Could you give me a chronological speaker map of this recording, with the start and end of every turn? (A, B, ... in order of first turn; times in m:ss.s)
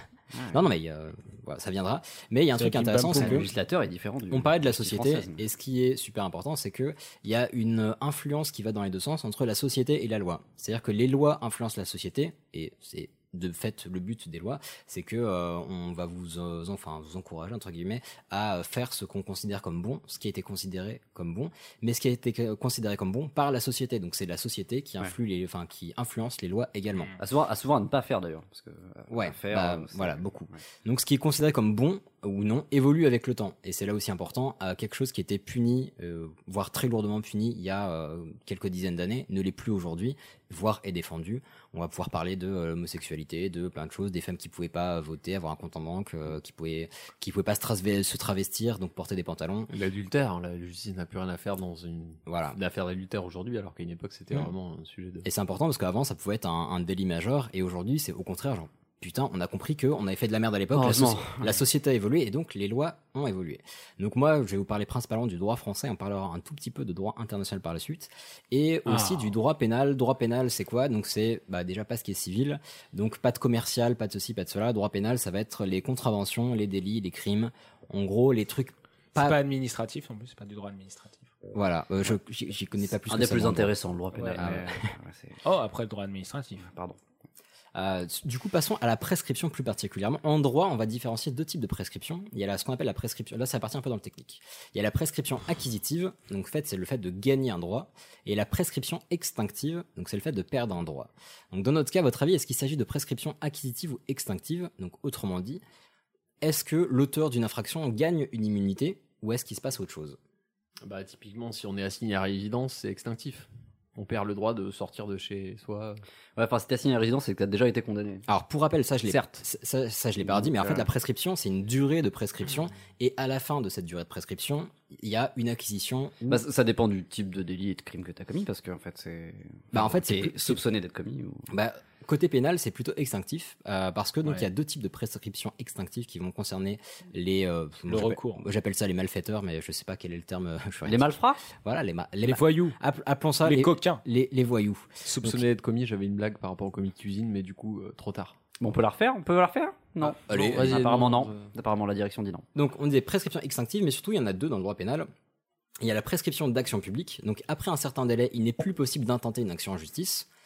0:00.3-0:00.6 A
0:00.5-0:03.5 B
0:02.5-0:03.4 C
0:03.1-0:05.4 A
0:04.3-0:27.1 B
0:27.2-0:30.2 A
0:29.1-0:49.7 B
0:49.7-0:55.3 D
0:52.2-0:52.6 B
0:55.2-1:19.4 B
1:00.7-1:01.5 A
1:08.9-1:09.3 C
1:19.2-1:21.3 C
1:21.5-1:23.7 B
1:23.1-1:25.4 A
1:24.2-1:24.4 C
1:24.4-1:24.7 B
1:25.4-1:26.6 C
1:26.6-1:27.0 A
1:27.7-1:45.6 B
1:46.4-1:50.2 B
1:50.8-1:56.0 D
1:56.4-1:58.2 A
1:58.3-2:06.4 B
2:00.3-2:00.9 A
2:06.3-2:11.5 A
2:09.7-2:10.6 B
2:11.5-2:25.4 B
2:17.9-2:18.4 C
2:20.8-2:21.4 A
2:22.2-2:22.8 C
2:23.4-2:24.0 C
2:25.0-2:28.3 D
2:28.6-2:32.4 A
2:30.3-2:30.9 B
2:30.3-2:31.5 D
2:32.5-2:35.1 B
2:35.8-2:40.3 B